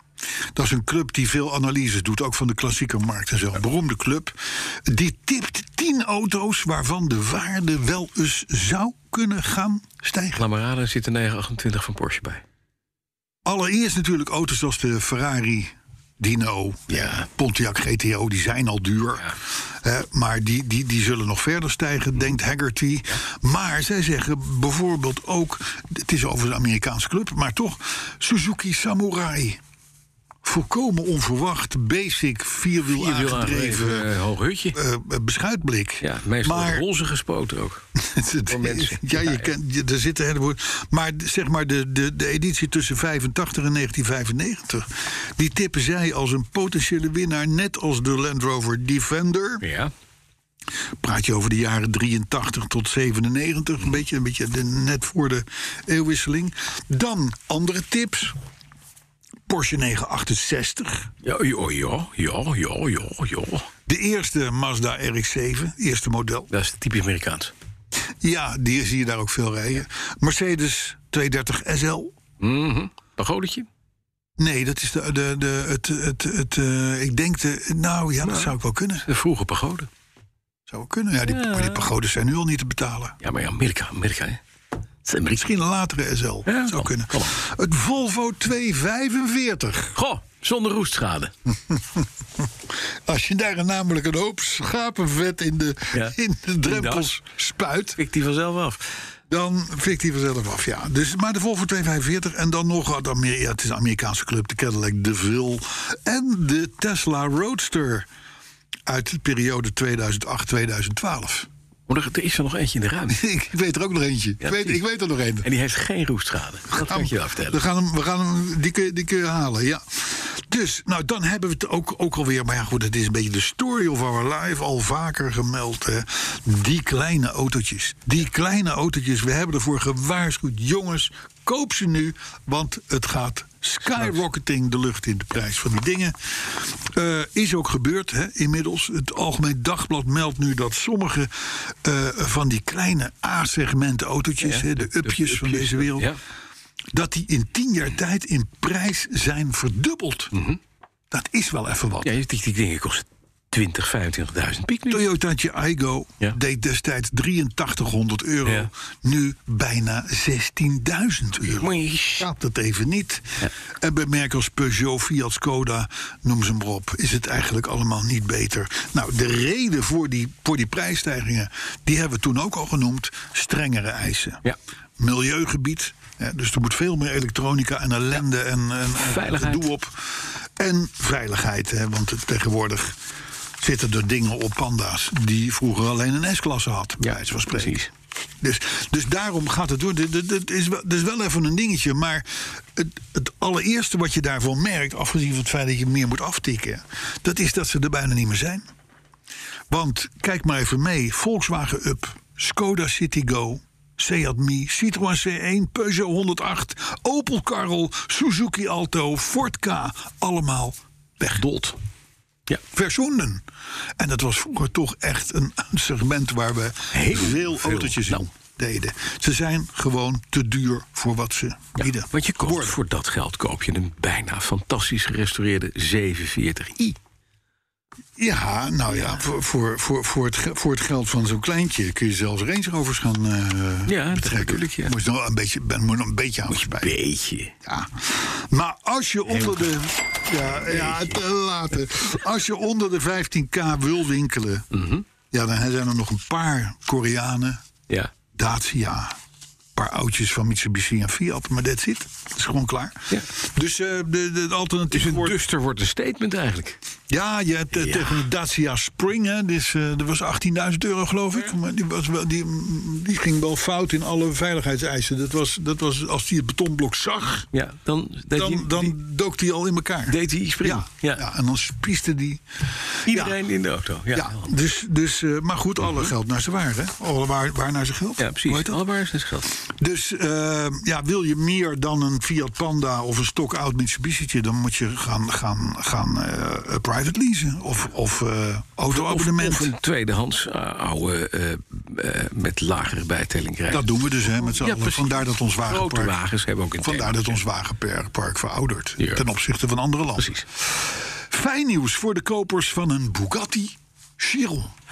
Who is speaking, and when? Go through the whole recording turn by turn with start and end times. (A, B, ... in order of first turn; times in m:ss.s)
0:00.6-0:10.4 A
0:10.4-0:12.4 B
0:13.4-0:29.6 A
0:16.9-0:17.3 B
0:30.4-0:34.1 A
0:32.9-0:34.8 B
0:34.7-0:36.9 A
0:36.0-0:37.8 B
0:38.0-0:49.6 A
0:38.5-0:39.5 B
0:49.6-0:49.9 B
0:51.0-0:58.4 A
0:59.5-1:01.1 A
1:01.2-1:03.7 B
1:03.9-1:06.5 A
1:06.5-1:07.5 B
1:08.2-1:12.1 A
1:12.4-1:13.7 B
1:14.4-1:19.1 A
1:18.2-1:19.9 B
1:20.7-1:23.2 A
1:21.3-1:21.9 B
1:23.2-1:24.4 B
1:25.0-1:25.5 B
1:25.4-1:30.0 A
1:26.5-1:27.4 B
1:30.0-1:31.3 B
1:31.7-1:32.5 A
1:33.1-1:38.0 A
1:35.9-1:37.1 B
1:38.0-1:38.8 B
1:39.3-1:48.1 A
1:48.9-1:51.5 A
1:51.9-1:53.2 B
1:53.1-1:55.5 A
1:54.4-1:54.8 B
1:55.4-1:57.6 B
1:56.7-2:26.1 A
2:13.9-2:14.2 B
2:24.4-2:26.2 B
2:26.9-2:30.3 A
2:30.3-2:30.6 B
2:31.1-2:32.2 A
2:32.0-2:35.1 B
2:34.9-2:54.4 A
2:38.4-2:38.7 B
2:41.5-2:42.3 B
2:55.0-3:03.0 A
2:59.0-2:59.7 B
3:03.6-3:07.8 A
3:07.0-3:07.9 B
3:08.4-3:18.7 A
3:19.7-3:31.8 A
3:32.7-3:33.4 A
3:34.0-3:42.8 A
3:36.9-3:38.2 B
3:41.8-3:47.0 B
3:48.2-3:56.9 A
3:48.9-3:49.2 B
3:53.9-3:55.0 B
3:56.5-3:57.5 B
3:57.6-4:04.7 A
3:59.3-3:59.7 B
4:00.6-4:01.2 B
4:04.7-4:05.0 B
4:05.3-4:07.6 A
4:08.3-4:09.2 A
4:09.8-4:15.4 A
4:14.9-4:16.8 B
4:17.1-4:27.5 A
4:17.7-4:18.2 B
4:27.5-4:29.0 B
4:28.4-4:32.4 A
4:30.1-4:31.2 B
4:33.0-4:33.4 A
4:33.1-4:34.5 B
4:34.1-4:38.8 A
4:38.2-4:39.5 B
4:39.6-4:49.7 A
4:48.9-4:57.4 B
4:53.7-4:56.2 A
4:56.8-5:04.7 A
4:59.0-4:59.2 B
5:00.2-5:00.4 B